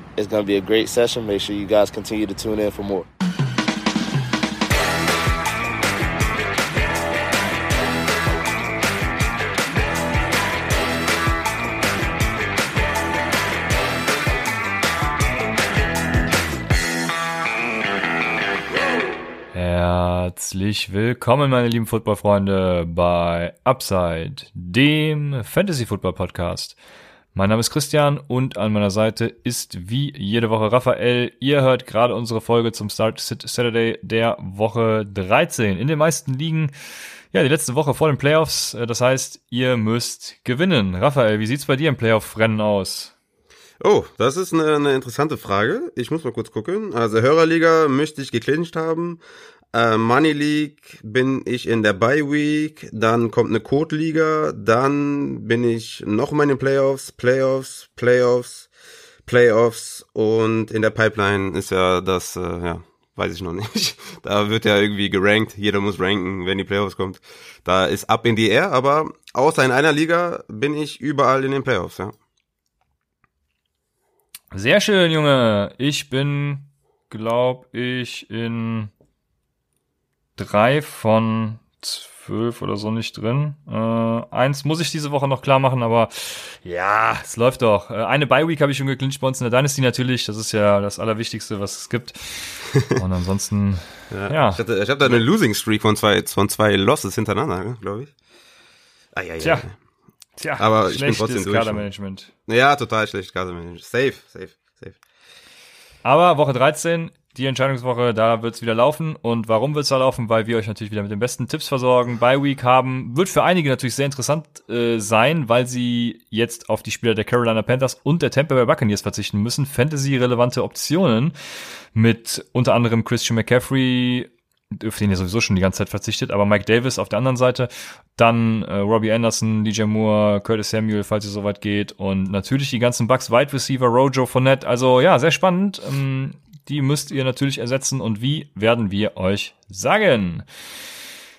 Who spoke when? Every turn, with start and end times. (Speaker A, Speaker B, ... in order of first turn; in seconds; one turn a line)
Speaker A: 0.2-3.1
Speaker B: 19.5-26.8
Speaker B: 27.4-36.7
Speaker B: 37.3-43.1
Speaker C: 43.8-49.2
Speaker C: 49.7-58.7
Speaker C: 59.3-72.1
Speaker B: 74.5-78.9
Speaker B: 80.4-95.2
Speaker C: 94.1-98.1
Speaker C: 99.2-99.7
Speaker B: 99.4-99.7
Speaker B: 100.4-102.3
Speaker C: 100.6-101.9
Speaker C: 102.5-105.0
Speaker B: 106.0-121.3
Speaker B: 121.9-140.5